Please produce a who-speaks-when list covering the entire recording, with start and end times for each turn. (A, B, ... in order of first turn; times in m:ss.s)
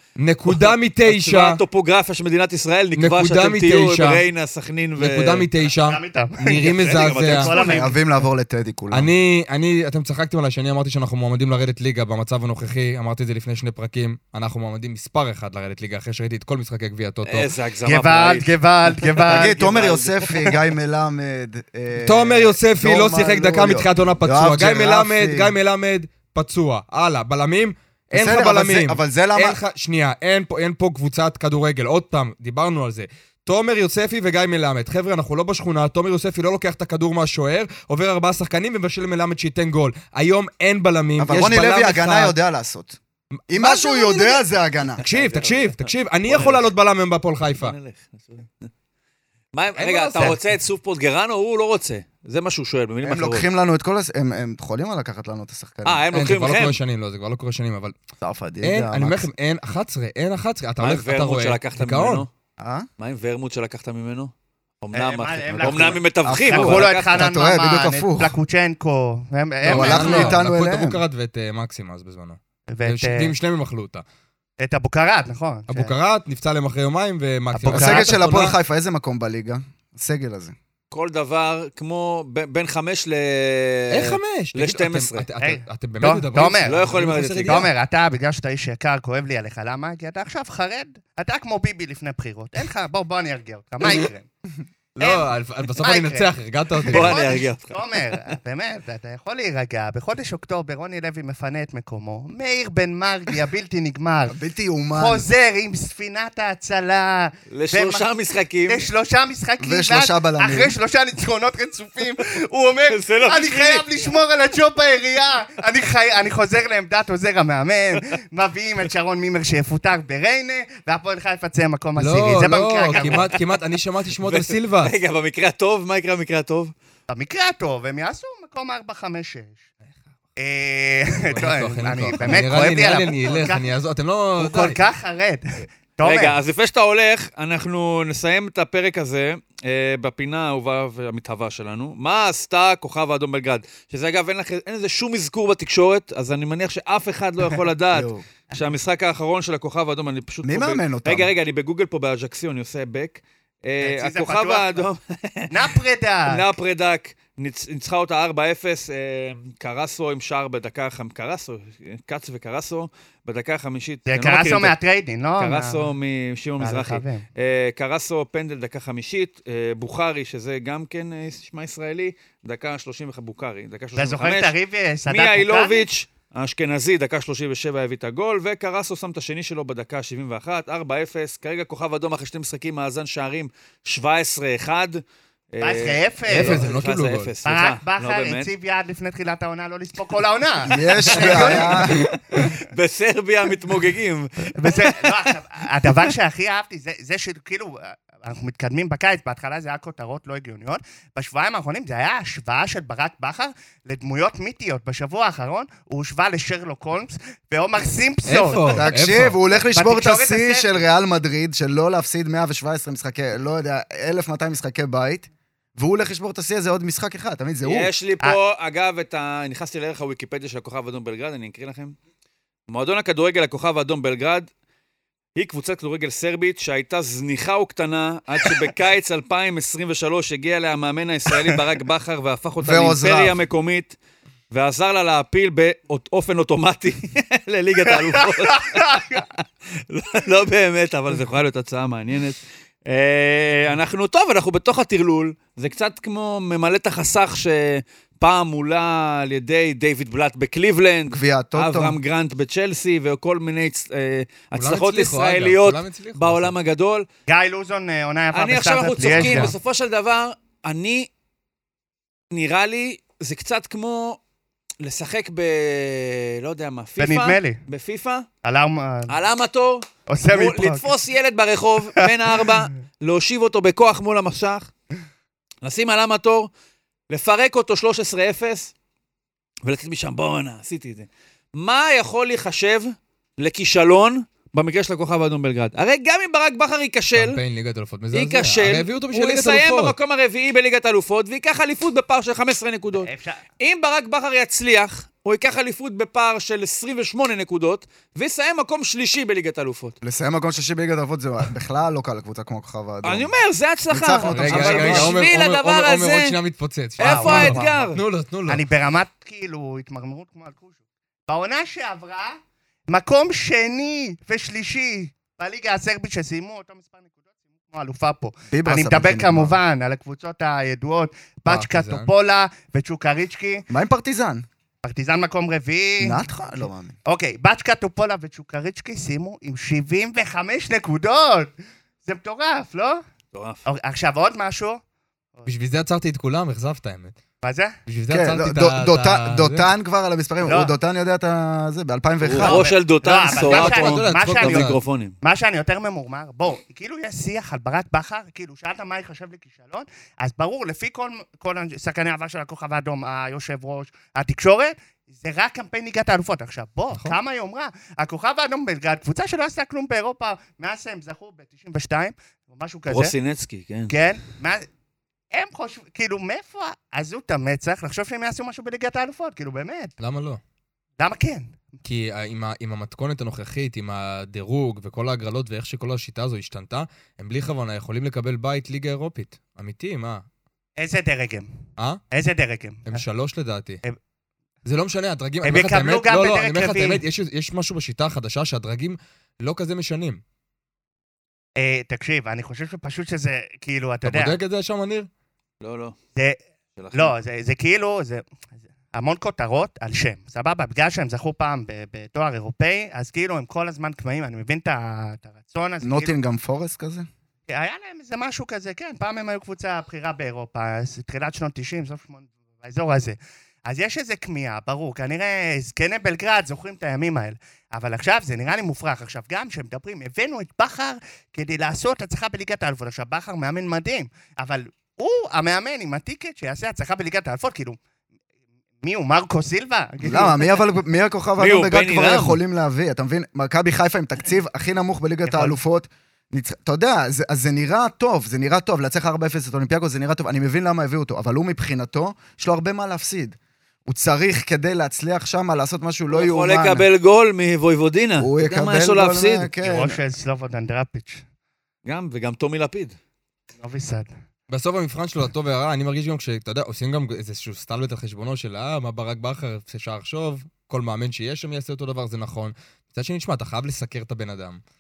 0:00.2-0:01.6 A
0:00.4-0:05.5 B
0:03.0-0:04.2 A
0:05.0-0:07.5 A
0:05.7-0:08.0 C
0:06.9-0:07.8 B
0:07.5-0:09.1 D
0:08.9-0:17.5 A
0:17.2-0:20.5 B
0:17.8-0:19.6 C
0:19.3-0:25.6 D
0:22.0-0:42.4 A
0:28.1-0:29.6 D
0:41.2-0:43.0 D
0:43.5-0:45.0 D
0:43.5-0:44.4 A
0:45.0-0:46.7 B
0:45.0-0:47.8 A
0:47.5-0:48.7 B
0:49.5-0:53.5 B
0:49.8-0:50.4 A
0:53.0-0:56.1 D
0:55.8-0:56.8 B
0:56.1-0:58.0 A
0:58.2-0:59.3 D
0:58.6-1:02.3 A
1:00.8-1:02.3 B
1:02.6-1:02.9 D
1:03.0-1:07.2 B
1:04.9-1:10.4 C
1:05.7-1:08.4 D
1:09.7-1:14.0 A
1:09.7-1:11.0 D
1:12.7-1:13.3 C
1:14.6-1:15.9 C
1:15.7-1:18.6 A
1:17.6-1:20.6 D
1:17.6-1:18.2 C
1:20.9-1:25.3 B
1:23.9-1:27.7 A
1:25.4-1:26.8 C
1:26.6-1:27.7 B
1:27.4-1:34.3 C
1:35.0-1:37.3 A
1:35.0-1:36.3 C
1:36.9-1:37.8 B
1:36.9-1:44.4 C
1:44.3-1:45.2 D
1:45.0-1:48.1 C
1:47.5-1:48.8 B
1:48.7-2:03.4 C
1:49.6-1:50.7 D
1:52.9-1:53.9 B
2:02.0-2:04.9 A
2:02.9-2:03.4 B
2:04.2-2:06.7 B
2:07.1-2:09.6 C
2:10.4-2:13.7 C
2:11.3-2:14.8 A
2:14.4-2:16.4 C
2:16.0-2:35.6 B
2:27.9-2:28.2 D
2:30.4-2:31.3 D
2:33.8-2:34.9 C
2:35.5-2:36.5 C
2:36.3-2:44.8 B
2:44.1-2:45.9 C
2:45.4-2:54.5 B
2:46.6-2:47.3 C
2:54.0-2:55.9 C
2:55.1-3:08.5 B
3:05.6-3:06.6 C
3:06.3-3:07.3 A
3:07.4-3:12.1 C
3:10.6-3:12.1 D
3:11.0-3:15.3 B
3:14.5-3:28.7 C
3:28.3-3:29.4 A
3:28.7-3:37.9 D
3:29.7-3:30.8 C
3:37.6-3:42.0 B
3:42.7-3:44.5 B
3:45.4-3:54.0 B
3:52.6-3:53.4 D
3:54.5-4:17.1 B
3:58.0-3:59.2 C
4:11.1-4:12.0 D
4:14.6-4:16.5 A
4:17.3-4:19.5 C
4:18.3-4:21.1 B
4:19.0-4:19.6 A
4:22.3-4:24.2 B
4:24.8-4:28.3 B
4:27.0-4:27.6 C
4:28.4-4:29.2 C
4:29.1-4:34.7 B
4:30.1-4:30.9 C
4:32.0-4:32.5 C
4:35.6-4:36.5 B
4:37.1-4:38.7 B
4:39.6-4:47.4 B
4:47.2-4:50.0 A
4:48.1-5:00.0 B
4:53.0-4:53.4 C
5:00.0-5:03.3 D
5:03.0-5:06.4 B
5:03.9-5:05.2 D
5:04.3-5:08.6 A
5:07.0-5:08.0 B
5:07.0-5:07.9 C
5:08.5-5:10.8 C
5:11.3-5:12.4 C
5:12.9-5:23.7 C
5:18.5-5:19.6 D
5:21.5-5:22.1 A
5:23.7-5:24.5 D
5:24.8-5:31.5 C
5:26.0-5:27.0 D
5:32.0-5:33.0 C
5:33.3-5:33.6 B
5:33.6-5:34.8 C
5:35.5-5:37.2 A
5:37.4-5:37.8 C
5:37.9-5:39.7 A
5:38.1-5:42.7 D
5:40.4-5:40.7 C
5:42.2-5:45.2 B
5:42.4-6:03.1 C
5:43.4-5:44.8 A
6:02.9-6:03.9 B
6:03.9-6:04.7 C
6:05.3-6:09.9 C
6:10.0-6:10.4 A
6:11.0-6:11.5 C
6:11.8-6:20.2 A
6:20.8-6:21.5 C
6:22.1-6:23.0 C
6:22.9-6:23.8 A
6:24.6-6:30.2 A
6:25.4-6:27.0 C
6:31.6-6:34.4 C
6:34.0-6:35.1 A
6:35.6-6:36.0 B
6:36.8-6:37.2 B
6:36.9-6:38.2 C
6:38.9-6:46.2 C
6:45.8-6:47.1 D
6:47.5-7:07.8 C
7:08.8-7:10.5 C
7:10.0-7:26.9 D
7:11.4-7:12.4 B
7:15.2-7:15.6 C
7:26.1-7:29.5 B
7:28.2-7:30.0 D
7:29.6-7:31.2 C
7:31.9-7:33.0 B
7:33.6-7:34.1 C
7:34.5-7:44.6 A